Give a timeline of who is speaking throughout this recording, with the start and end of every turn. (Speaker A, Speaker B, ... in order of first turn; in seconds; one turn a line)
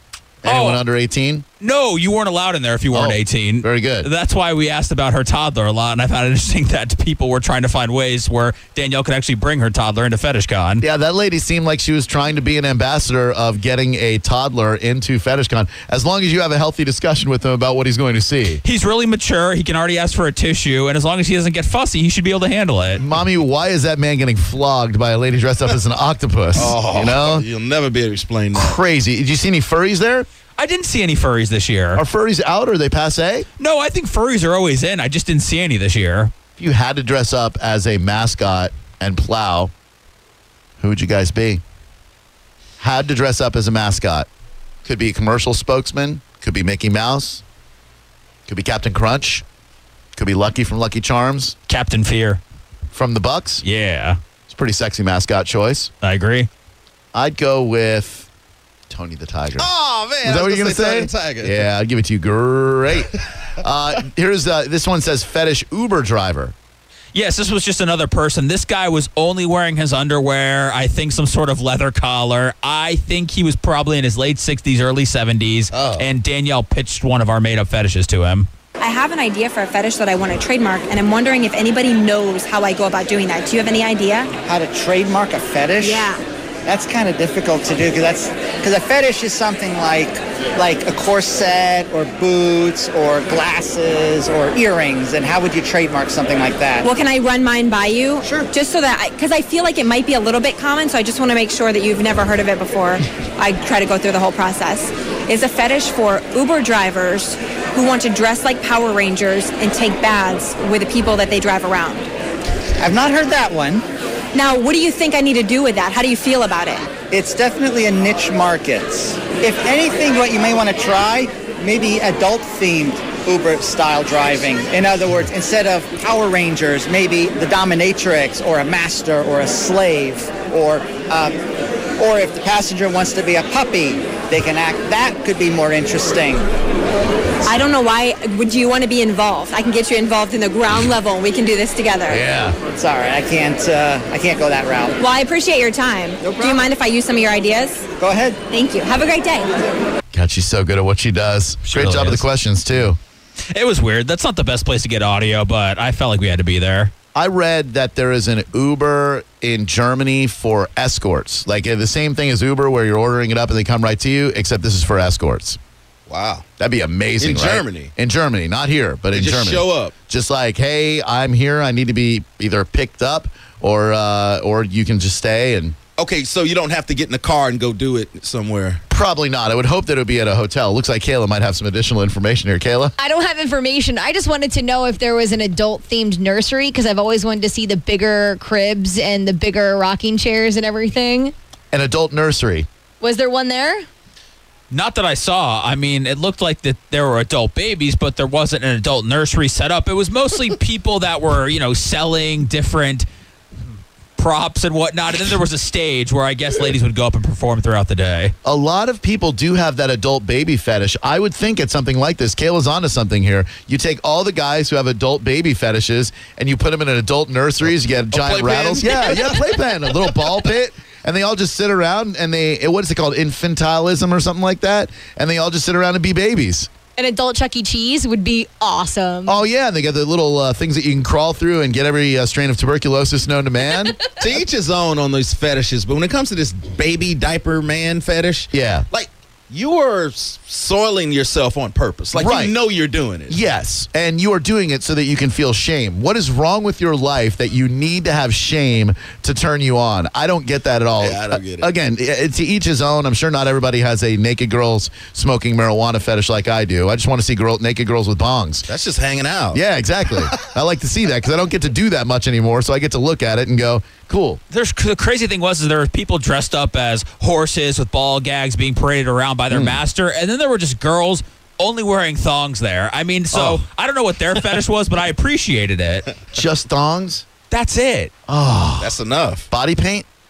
Speaker A: 0.4-1.4
Speaker B: 0.5-0.8
Speaker B: 1.6-10.8
Speaker A: 2.9-4.1
Speaker A: 10.8-18.6
Speaker B: 18.6-23.0
Speaker A: 23.0-27.5
Speaker C: 26.6-28.8
Speaker A: 28.5-30.3
Speaker B: 30.6-32.0
Speaker A: 31.9-33.5
Speaker B: 33.6-36.3
Speaker A: 36.6-39.7
Speaker A: 40.8-41.6
Speaker A: 42.8-44.3
Speaker A: 44.9-47.4
Speaker A: 48.5-49.4
Speaker A: 50.2-51.6
Speaker B: 51.7-52.4
Speaker A: 52.9-53.6
Speaker B: 53.6-54.2
Speaker A: 54.5-55.9
Speaker B: 56.0-56.5
Speaker A: 57.1-58.3
Speaker A: 58.9-59.7
Speaker C: 59.6-61.6
Speaker A: 60.2-66.5
Speaker B: 67.1-78.5
Speaker A: 75.7-76.1
Speaker D: 78.8-84.3
Speaker E: 84.5-86.1
Speaker D: 85.8-86.2
Speaker E: 86.7-96.9
Speaker D: 96.8-112.1
Speaker E: 98.2-98.5
Speaker E: 112.8-113.8
Speaker D: 114.3-116.9
Speaker E: 117.1-131.4
Speaker E: 132.0-136.5
Speaker D: 137.4-142.2
Speaker A: 142.1-142.6
Speaker E: 142.8-145.0
Speaker D: 145.0-147.9
Speaker E: 146.2-146.6
Speaker E: 148.0-148.4
Speaker D: 148.5-149.5
Speaker A: 150.1-153.0
Speaker B: 151.7-152.2
Speaker B: 153.5-156.9
Speaker A: 157.2-165.6
Speaker C: 166.1-166.5
Speaker A: 166.6-175.8
Speaker C: 167.2-167.9
Speaker C: 169.1-169.9
Speaker C: 176.0-178.8
Speaker A: 178.9-182.9
Speaker F: 183.0-191.3
Speaker A: 191.7-192.7
Speaker F: 193.0-193.9
Speaker B: 194.7-203.1
Speaker B: 204.2-208.3
Speaker A: 208.4-226.7
Speaker C: 218.1-219.4
Speaker F: 227.0-229.4
Speaker A: 229.3-234.0
Speaker C: 234.2-243.4
Speaker A: 238.5-238.8
Speaker A: 242.2-242.5
Speaker A: 243.3-258.7
Speaker C: 251.0-251.7
Speaker C: 258.7-259.6
Speaker A: 259.5-264.4
Speaker B: 264.5-276.1
Speaker A: 269.5-269.8
Speaker A: 273.3-273.6
Speaker A: 276.3-277.3
Speaker B: 277.5-278.1
Speaker A: 278.3-279.0
Speaker C: 278.8-279.5
Speaker A: 279.5-280.1